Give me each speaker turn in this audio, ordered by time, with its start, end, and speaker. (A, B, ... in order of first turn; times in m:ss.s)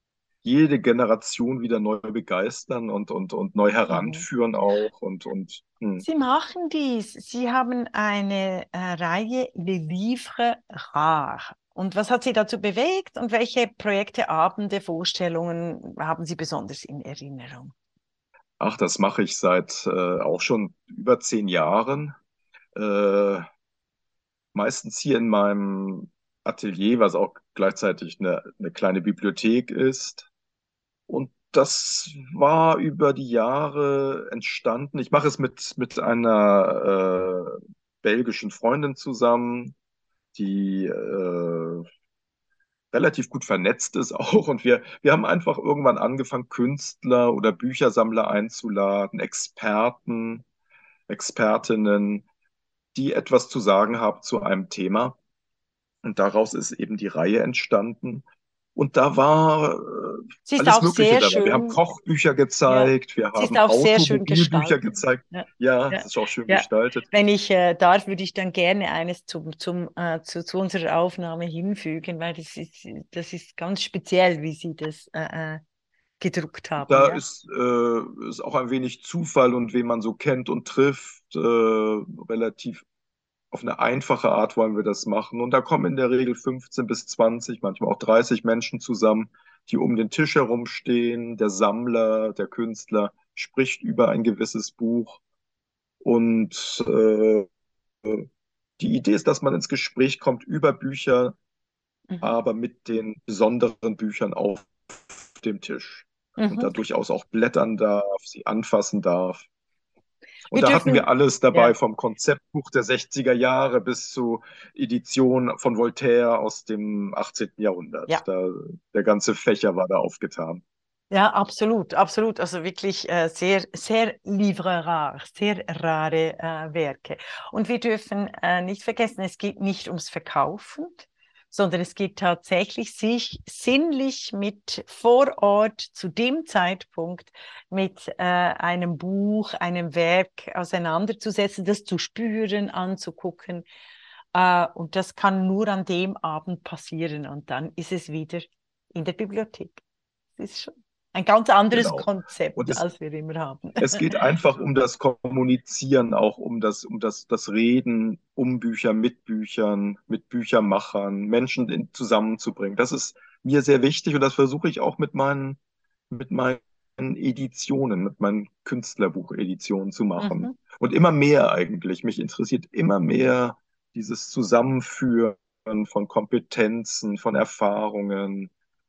0:00.4-0:06.0 A
0:03.9-0:04.2 B
0:06.0-0:17.7 B
0:18.6-0:22.1 A
0:22.7-0:23.4 A
0:24.5-0:30.3 A
0:31.1-0:39.7 A
0:40.3-0:41.8 A
0:42.9-0:50.4 A
0:51.1-0:52.2 A
0:52.9-0:55.2 A
0:56.0-0:58.2 A
0:58.8-1:07.1 A
1:00.4-1:01.8 B
1:02.7-1:15.6 B
1:16.2-1:17.2 B
1:16.8-1:22.8 A
1:23.5-1:35.2 A
1:36.0-1:37.5 A
1:38.8-1:41.3 A
1:42.2-1:49.4 A
1:46.4-1:46.7 B
1:50.5-2:00.6 A
1:50.5-1:51.7 B
2:01.1-2:23.6 B
2:24.3-2:29.8 B
2:30.4-2:34.2 B
2:31.7-2:32.8 A
2:33.8-2:45.6 A
2:46.1-2:58.5 A
2:50.2-2:50.5 B